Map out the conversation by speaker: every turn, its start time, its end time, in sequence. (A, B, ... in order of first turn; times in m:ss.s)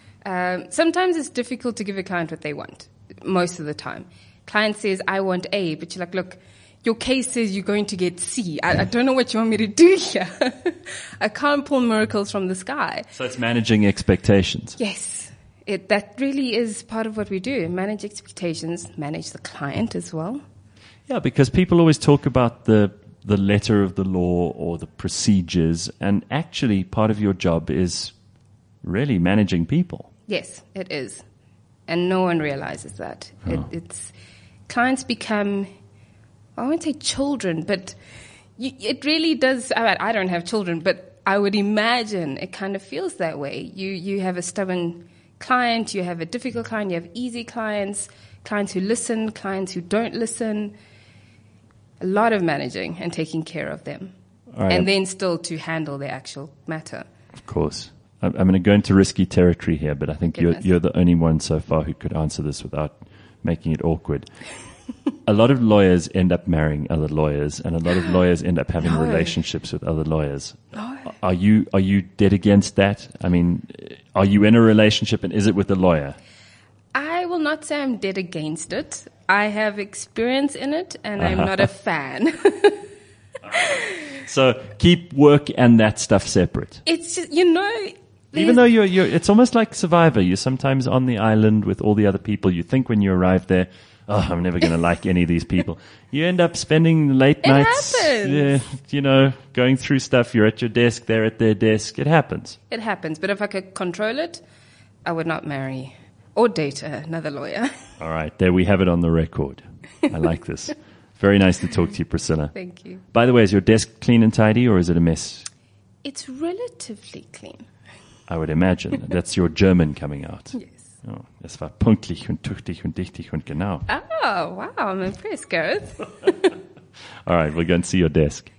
0:00.2-0:13.1 A
0:13.1-0:14.8 B
0:14.8-0:20.4 A
0:21.1-0:28.1 B
0:28.8-0:30.1 B
0:30.3-0:31.2 A
0:31.9-0:34.1 A
0:34.7-0:35.7 A
0:36.6-0:38.0 A
0:38.6-0:50.8 A
0:52.0-0:54.1 A
0:54.6-0:54.9 B
0:54.7-0:57.1 A
0:57.4-1:04.3 B
1:00.3-1:00.7 A
1:05.3-1:16.2 B
1:08.8-1:09.4 A
1:10.7-1:11.1 A
1:16.9-1:22.8 A
1:21.2-1:21.6 B
1:23.5-1:26.8 B
1:26.9-1:28.6 A
1:28.3-1:42.6 B
1:37.4-1:38.6 A
1:42.7-1:44.4 A
1:45.0-1:47.7 A
1:48.0-1:52.6 B
1:52.5-1:53.0 A
1:53.1-1:55.5 B
1:56.0-1:57.7 A
1:58.3-2:03.9 B
2:03.9-2:06.5 A
2:07.3-2:08.5 B